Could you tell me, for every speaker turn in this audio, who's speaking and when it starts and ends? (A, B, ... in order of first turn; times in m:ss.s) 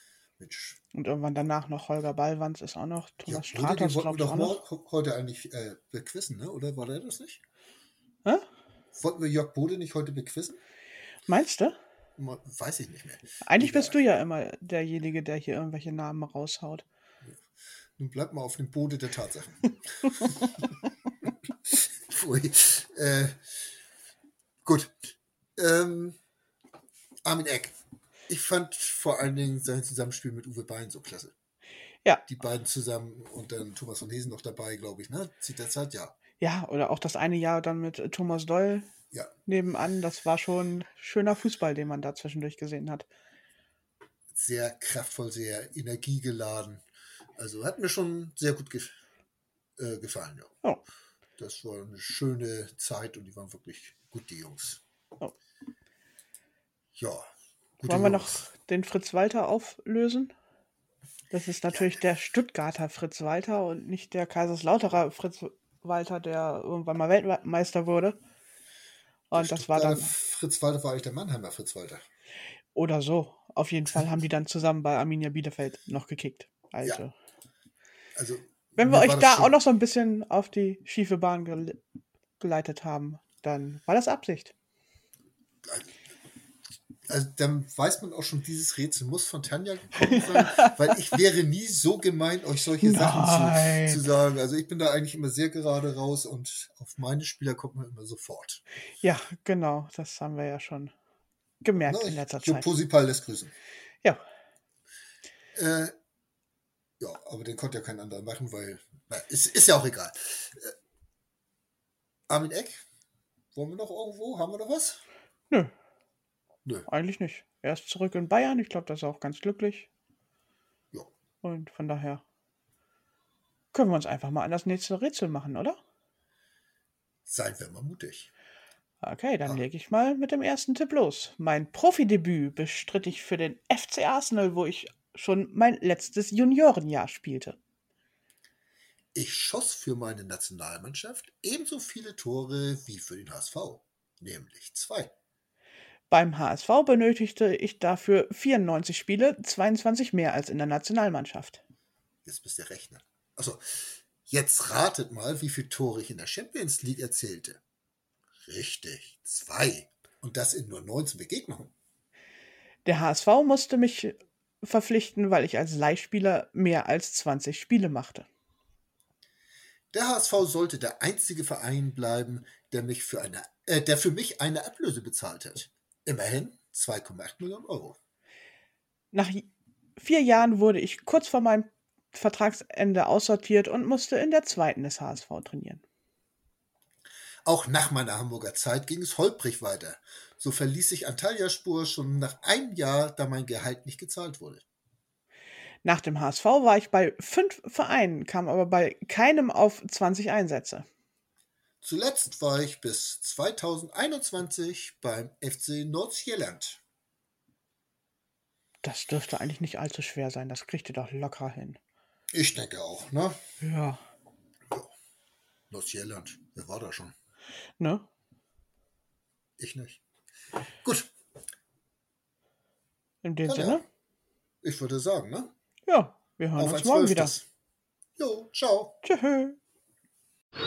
0:00.4-0:00.8 A
0:00.9-0:04.6 B
0:03.2-0:07.4 A
0:08.9-0:10.6 A
0:11.3-0:11.8 B
0:12.2-0:14.0 A
0:13.4-0:16.8 B
0:18.0-0:20.3 A
0:21.7-0:23.4 A
0:24.6-0:24.9 A
0:25.6-0:26.2 A
0:27.2-0:27.7 A
0:28.3-0:31.3 A
0:32.3-0:36.2 A
0:36.4-0:38.9 B
0:39.4-0:43.1 B
0:44.3-0:46.8 A
0:47.4-0:49.0 A
0:49.8-0:50.5 A
0:51.4-0:54.8 A
0:56.9-0:57.3 A
0:57.8-0:58.5 A
0:57.8-1:00.3 B
1:01.3-1:08.2 B
1:09.3-1:10.1 B
1:09.3-1:12.0 A
1:12.7-1:17.1 B
1:18.1-1:19.6 A
1:18.8-1:21.8 B
1:22.4-1:24.5 B
1:25.6-1:25.9 A
1:27.1-1:38.6 A
1:30.1-1:30.7 B
1:32.8-1:34.1 B
1:39.0-1:40.9 B
1:41.6-1:42.7 B
1:41.8-1:43.5 A
1:45.5-1:45.9 A
1:47.0-1:50.7 A
1:52.3-1:52.8 A
1:53.5-1:55.0 A
1:56.9-1:59.9 B
2:01.4-2:02.2 B
2:03.7-2:05.8 B
2:07.3-2:08.3 A
2:09.0-2:17.6 B
2:19.1-2:25.1 A
2:26.1-2:31.6 B
2:32.2-2:37.6 A
2:38.4-2:41.7 A
2:42.8-2:48.3 B
2:49.9-2:58.0 A
2:59.1-3:05.8 B
3:07.4-3:14.6 A
3:15.8-3:20.8 B
3:21.8-3:26.8 A
3:28.8-3:31.8 B
3:32.3-3:33.4 A
3:33.6-3:34.0 B
3:35.7-3:37.1 A
3:37.8-3:38.1 B
3:39.6-3:40.0 A
3:40.8-3:41.1 A
3:43.2-3:43.8 B
3:43.4-3:43.8 A
3:44.6-3:45.5 A
3:45.9-3:47.3 B
3:46.6-3:47.4 A
3:48.2-3:49.0 A
3:49.0-3:49.6 B